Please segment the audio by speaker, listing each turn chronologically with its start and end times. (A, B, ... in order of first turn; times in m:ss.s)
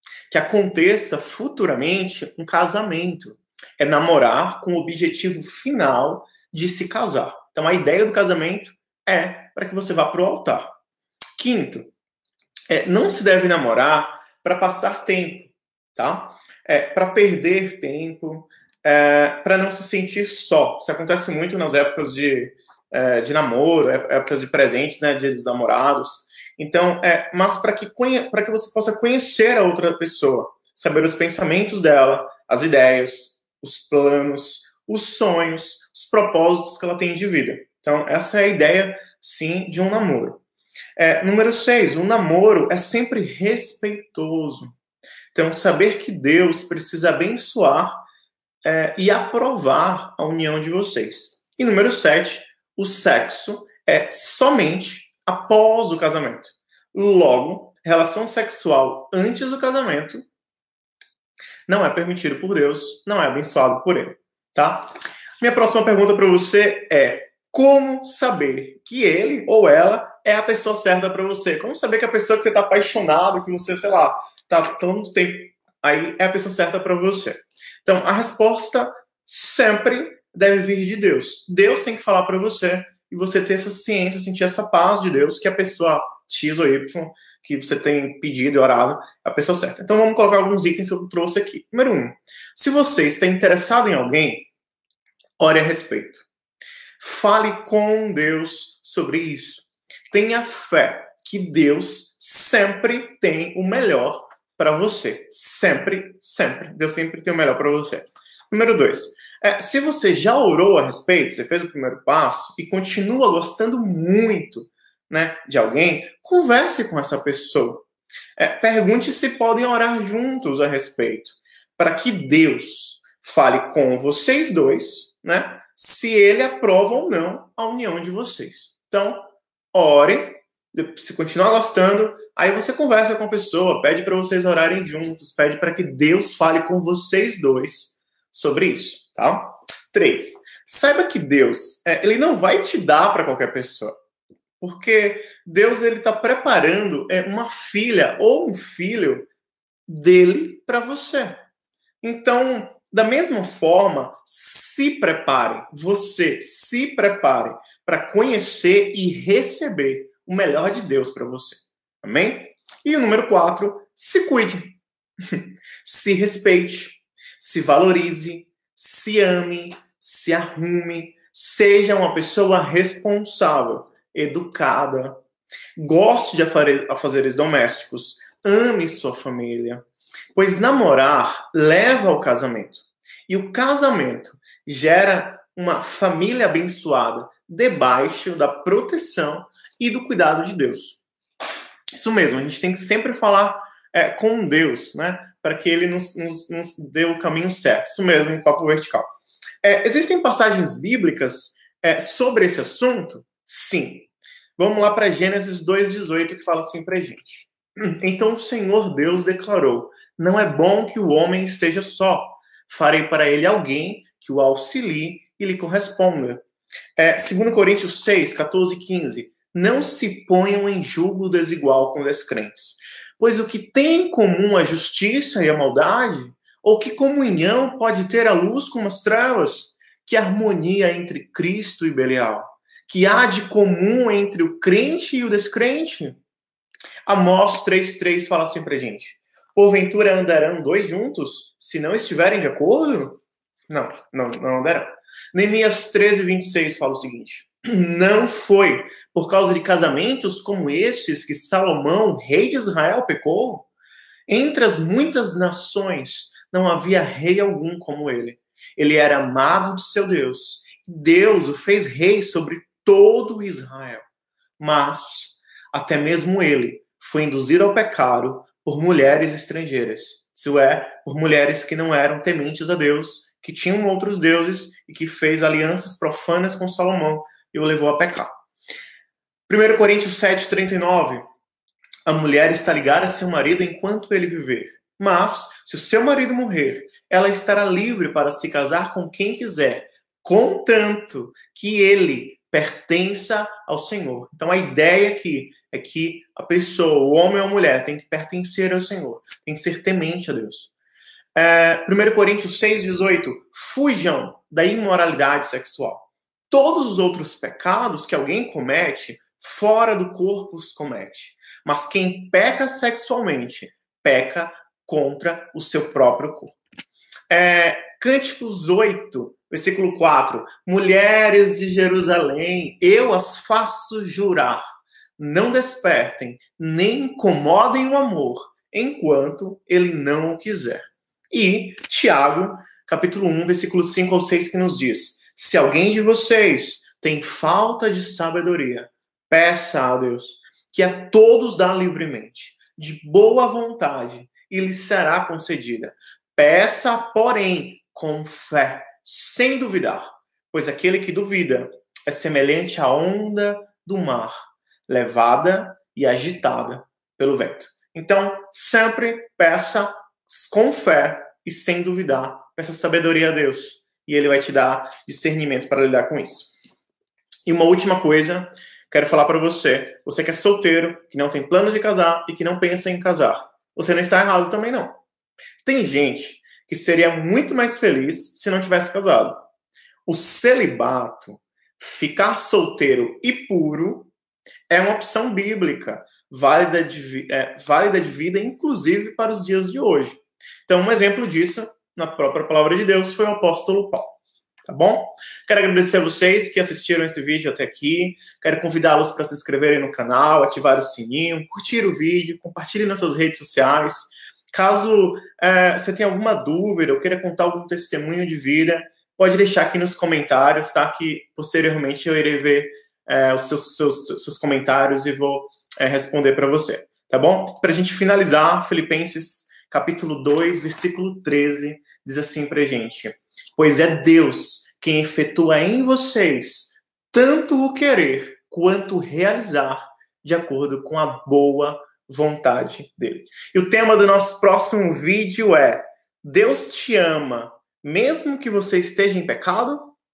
0:00.3-0:10.8 A
0:11.4-0:11.9 A
0:12.7-0:40.4 A
0:41.0-0:44.8 A
0:45.3-0:48.0 A
0:48.6-1:00.2 A
1:01.7-1:34.5 A
1:35.4-1:36.3 A
1:37.0-2:24.0 A
2:24.6-2:29.3 A
2:29.9-2:31.5 A
2:32.0-2:55.2 A
2:55.8-2:59.8 A
3:00.4-3:11.0 A
3:11.9-3:19.1 A
3:19.6-3:36.4 A
3:37.0-3:56.2 A
3:57.1-4:13.7 A
4:14.3-4:24.0 A
4:24.6-4:38.4 A
4:39.5-4:41.2 A
4:42.1-5:00.7 A
5:01.4-5:16.6 A
5:17.3-5:24.6 A
5:25.2-6:06.5 A
6:07.5-6:15.0 A
6:15.6-6:19.4 A
6:20.1-6:24.1 A
6:24.7-7:20.0 A